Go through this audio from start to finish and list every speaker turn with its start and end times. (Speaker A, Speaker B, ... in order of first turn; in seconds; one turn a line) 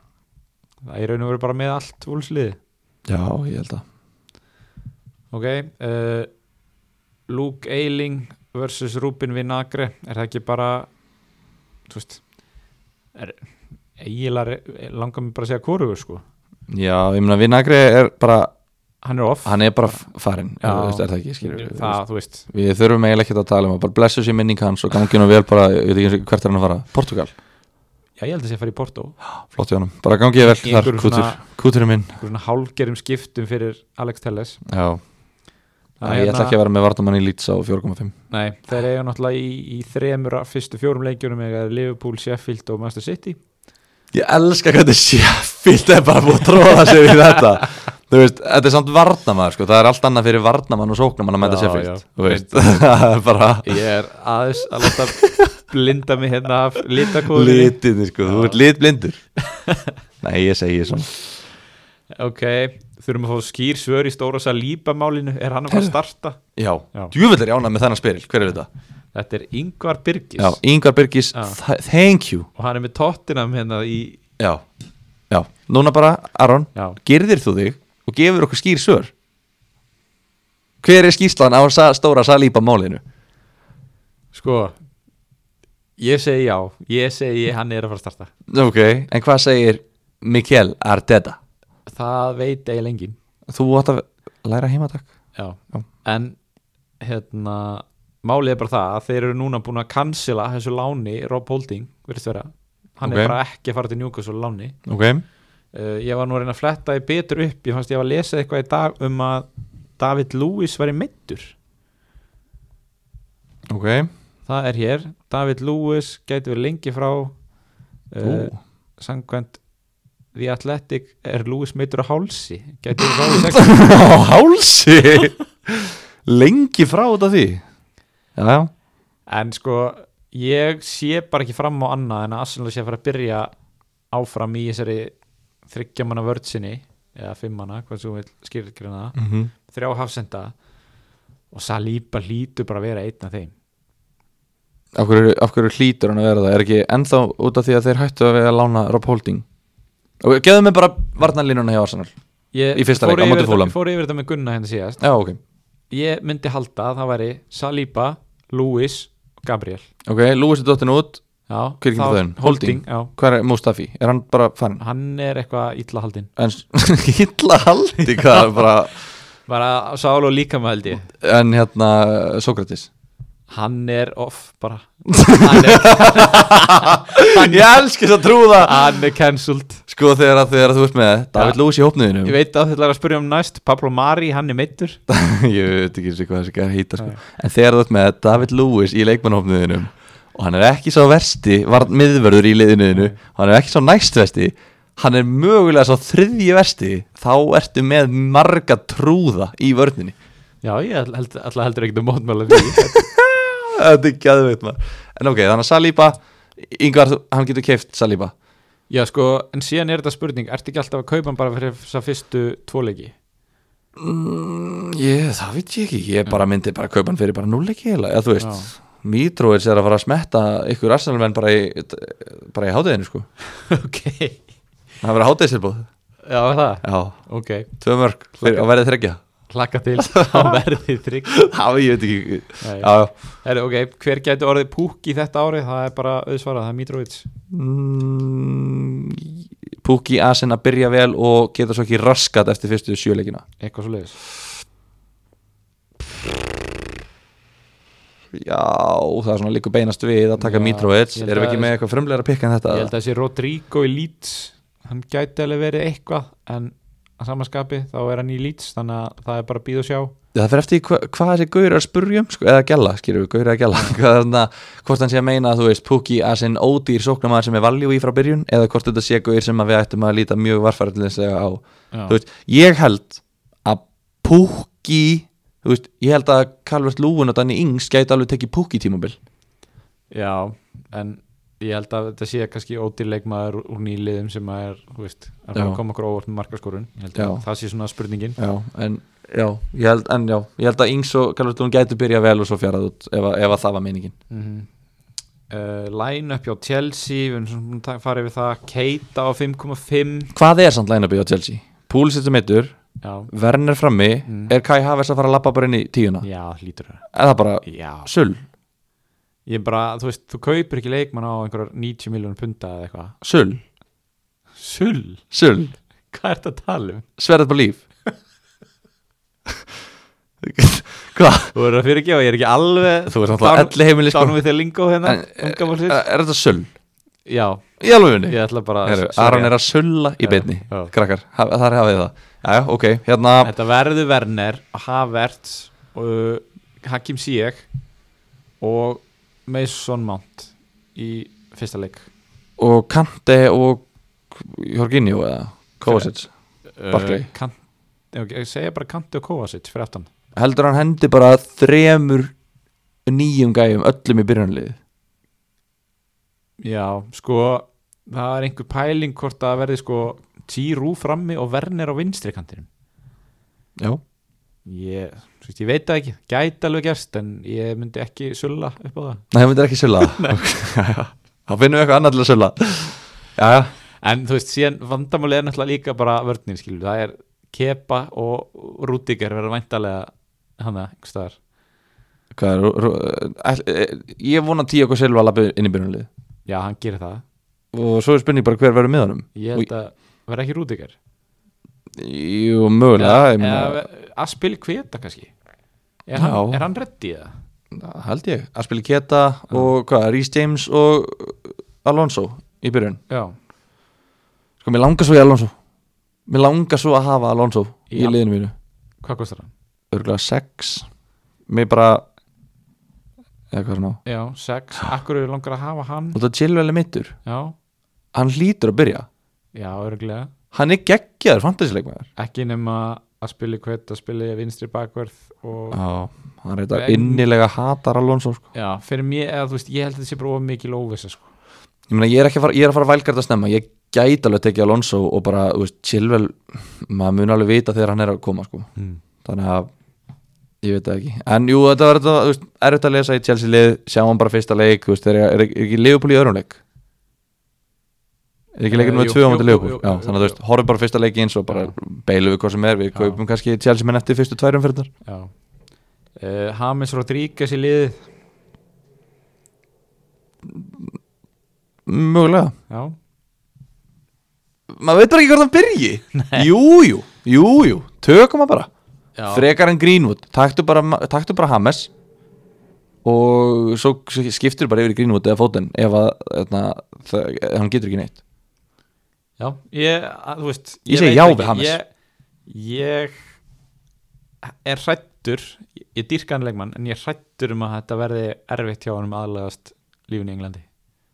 Speaker A: 0.8-2.6
Speaker B: 3.1-3.8
Speaker A: 5.3-6.3
Speaker A: 7.3-10.9
Speaker A: 11.9-12.2
Speaker A: 13.1-13.4
Speaker A: 14.0-16.2
Speaker B: 16.7-18.5
Speaker A: 19.0-20.0
Speaker B: 19.4-27.3
Speaker A: 20.6-22.5
Speaker A: 28.2-29.2
Speaker B: 29.4-32.2
Speaker A: 30.4-31.4
Speaker A: 32.2-34.6
Speaker B: 34.7-35.0
Speaker A: 36.0-36.5
Speaker B: 36.0-38.1
Speaker A: 38.3-43.4
Speaker B: 44.1-53.8
Speaker A: 51.4-52.9
Speaker A: 53.6-58.6
Speaker B: 54.8-55.5
Speaker B: 57.1-59.2
Speaker A: 59.5-59.9
Speaker B: 60.2-61.2
Speaker A: 62.1-66.4
Speaker B: 66.5-68.7
Speaker A: 69.1-70.6
Speaker B: 70.4-72.5
Speaker A: 72.5-74.2
Speaker B: 74.4-74.6
Speaker B: 75.3-79.1
Speaker B: 80.8-83.0
Speaker A: 84.3-84.7
Speaker A: 86.0-88.3
Speaker B: 88.5-91.4
Speaker A: 91.9-93.2
Speaker B: 93.5-95.1
Speaker A: 95.3-96.4
Speaker A: 97.0-104.8
Speaker B: 103.0-103.4
Speaker B: 104.9-105.2
Speaker A: 105.7-109.5
Speaker A: 110.0-111.5
Speaker B: 113.7-114.1
Speaker A: 114.5-117.3
Speaker A: 118.1-119.6
Speaker B: 118.2-118.5
Speaker A: 120.3-123.8
Speaker B: 123.3-127.6
Speaker B: 128.3-128.7
Speaker A: 129.3-133.5
Speaker A: 134.1-135.1
Speaker A: 135.7-140.5
Speaker B: 139.2-139.5
Speaker A: 141.5-143.5
Speaker B: 144.9-149.4
Speaker B: 150.2-152.1
Speaker A: 152.5-155.0
Speaker B: 152.7-153.7
Speaker B: 155.0-155.4
Speaker A: 155.9-159.8
Speaker B: 160.1-161.2
Speaker A: 161.5-163.1
Speaker B: 161.8-164.8
Speaker A: 164.8-166.3
Speaker B: 166.4-168.9
Speaker A: 168.0-168.4
Speaker A: 169.5-171.1
Speaker B: 171.1-172.9
Speaker A: 173.5-177.7
Speaker B: 175.1-179.0
Speaker A: 178.6-179.8
Speaker B: 179.9-182.3
Speaker A: 182.2-185.0
Speaker B: 185.1-200.1
Speaker A: 200.6-203.1
Speaker B: 202.5-208.3
Speaker A: 208.9-213.1
Speaker B: 214.0-223.2
Speaker A: 218.4-218.7
Speaker A: 223.6-224.4
Speaker B: 225.0-225.9
Speaker A: 226.2-227.7
Speaker B: 226.8-227.2
Speaker B: 227.7-229.2
Speaker A: 228.4-228.7
Speaker A: 229.5-231.3
Speaker B: 230.0-230.6
Speaker B: 231.3-233.1
Speaker A: 232.6-237.3
Speaker B: 237.5-243.4
Speaker A: 243.6-244.2
Speaker B: 248.3-252.9
Speaker A: 250.4-251.7
Speaker A: 252.7-260.1
Speaker B: 260.3-279.2
Speaker A: 271.9-272.2
Speaker A: 280.1-288.4
Speaker B: 287.1-287.4
Speaker B: 288.4-294.1
Speaker A: 294.3-294.7
Speaker A: 295.5-300.3
Speaker B: 300.3-302.8
Speaker A: 303.0-303.3
Speaker B: 303.3-306.2
Speaker A: 304.3-304.5
Speaker A: 306.2-307.0
Speaker B: 307.1-308.4
Speaker A: 307.6-308.1
Speaker A: 309.4-313.2
Speaker B: 313.2-313.6
Speaker A: 314.6-315.2
Speaker B: 315.3-315.7
Speaker A: 316.1-317.1
Speaker B: 317.2-317.8
Speaker B: 320.4-321.5
Speaker A: 321.5-326.0
Speaker B: 323.1-324.4
Speaker B: 325.0-326.7
Speaker A: 327.2-327.7
Speaker B: 327.8-333.5
Speaker A: 328.2-329.5
Speaker A: 330.2-330.9
Speaker A: 333.4-337.7
Speaker A: 338.6-342.1
Speaker B: 342.6-346.3
Speaker A: 346.8-347.6
Speaker B: 346.9-347.3
Speaker A: 348.1-350.1
Speaker B: 350.4-352.3
Speaker B: 353.1-354.8
Speaker A: 356.6-362.7
Speaker A: 364.6-369.2
Speaker B: 369.3-373.7
Speaker A: 370.0-370.4
Speaker A: 374.0-381.4
Speaker B: 382.3-386.1
Speaker A: 386.5-387.2
Speaker B: 387.7-389.7
Speaker A: 389.3-390.9
Speaker B: 391.9-393.8
Speaker A: 392.9-395.3
Speaker A: 396.1-397.3
Speaker B: 396.2-396.6
Speaker B: 397.7-403.0
Speaker A: 403.1-403.3
Speaker B: 404.6-405.5
Speaker B: 406.3-408.5
Speaker A: 407.9-408.2
Speaker A: 409.0-409.5
Speaker B: 409.9-410.9
Speaker B: 411.5-412.0
Speaker B: 413.5-414.0
Speaker A: 414.0-416.2
Speaker B: 416.1-417.1
Speaker A: 417.2-417.5
Speaker B: 418.1-419.1
Speaker A: 419.5-420.3
Speaker B: 420.5-422.1
Speaker A: 422.2-425.8
Speaker B: 425.7-428.4
Speaker A: 426.7-427.3
Speaker A: 428.5-431.2
Speaker B: 431.9-438.7
Speaker A: 438.8-439.0
Speaker B: 439.2-439.7
Speaker B: 440.6-446.6
Speaker B: 448.6-454.9
Speaker A: 448.7-450.4
Speaker A: 451.5-451.7
Speaker A: 452.9-453.2
Speaker A: 455.0-455.3
Speaker A: 456.2-458.0
Speaker B: 460.5-460.9
Speaker B: 461.9-462.5
Speaker A: 462.7-462.9
Speaker B: 464.7-468.7
Speaker A: 466.1-466.5
Speaker A: 469.1-469.4
Speaker B: 469.3-471.9
Speaker B: 473.0-478.2
Speaker A: 479.4-481.9
Speaker B: 480.9-481.8
Speaker A: 482.5-483.2
Speaker A: 484.5-490.6